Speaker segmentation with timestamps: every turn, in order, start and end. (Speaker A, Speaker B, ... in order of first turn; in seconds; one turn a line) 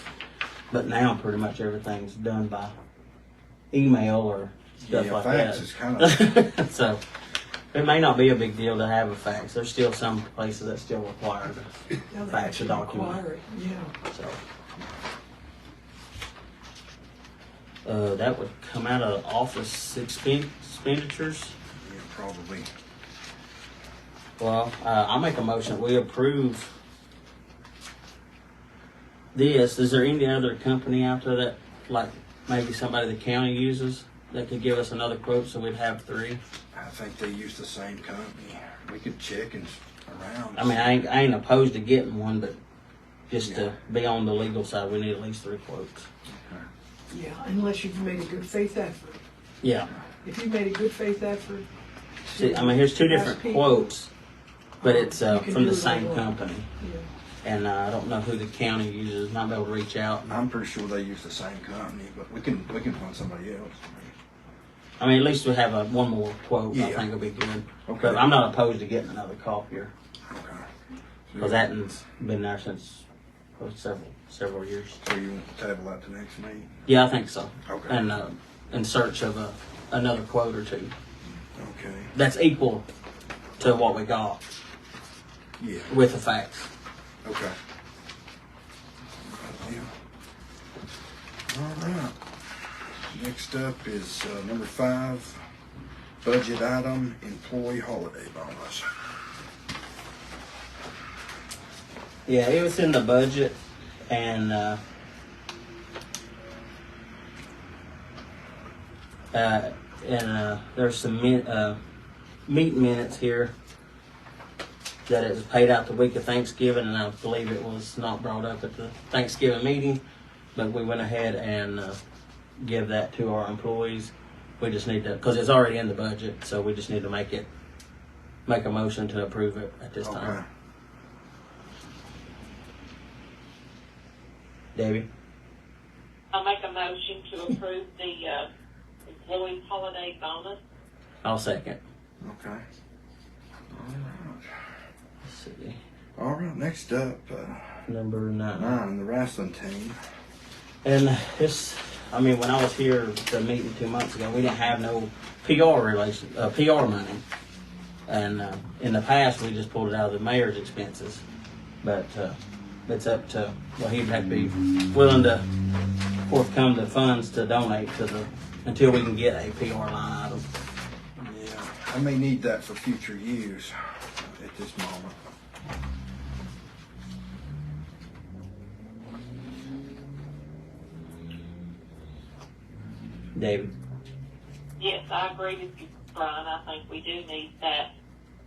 Speaker A: 0.7-2.7
Speaker A: 3.7-7.0
Speaker B: 4.8-6.2
Speaker A: 7.7-11.7
Speaker C: 12.1-13.9
Speaker A: 12.3-13.2
Speaker A: 14.1-14.4
Speaker A: 17.9-21.6
Speaker B: 21.8-22.7
Speaker A: 24.4-26.7
Speaker A: 29.3-36.4
Speaker B: 36.7-41.1
Speaker A: 40.5-42.6
Speaker A: 43.3-46.1
Speaker B: 43.4-43.8
Speaker B: 46.3-46.7
Speaker C: 47.1-49.2
Speaker A: 49.6-49.9
Speaker C: 50.2-51.6
Speaker C: 52.3-53.9
Speaker A: 52.3-54.1
Speaker C: 54.8-56.3
Speaker A: 54.8-56.7
Speaker C: 56.8-57.1
Speaker A: 57.4-60.3
Speaker B: 60.3-64.1
Speaker A: 65.0-69.9
Speaker B: 66.7-67.1
Speaker B: 67.9-68.3
Speaker B: 70.3-70.7
Speaker B: 71.3-71.7
Speaker A: 71.4-73.0
Speaker A: 73.6-75.0
Speaker B: 75.0-76.8
Speaker A: 76.9-80.9
Speaker B: 77.7-78.0
Speaker B: 81.5-82.1
Speaker A: 82.1-82.9
Speaker A: 83.6-84.5
Speaker B: 85.6-85.9
Speaker A: 85.9-86.7
Speaker B: 87.2-87.6
Speaker B: 89.2-89.9
Speaker B: 91.5-92.2
Speaker B: 93.1-95.4
Speaker B: 96.2-98.9
Speaker A: 102.3-104.8
Speaker A: 109.3-111.8
Speaker A: 112.5-113.5
Speaker A: 115.1-120.0
Speaker A: 120.6-122.0
Speaker A: 122.6-127.5
Speaker A: 128.5-130.4
Speaker B: 130.0-130.4
Speaker A: 134.8-135.1
Speaker D: 136.3-138.5
Speaker D: 139.1-140.6
Speaker A: 141.2-141.8
Speaker B: 142.2-142.6
Speaker B: 143.7-144.5
Speaker A: 145.2-145.8
Speaker B: 146.2-147.8
Speaker A: 147.9-148.8
Speaker B: 148.6-150.0
Speaker A: 150.8-157.2
Speaker A: 158.1-161.2
Speaker A: 161.8-165.5
Speaker A: 166.3-170.4
Speaker B: 171.2-175.2
Speaker A: 183.3-183.7
Speaker D: 184.8-187.9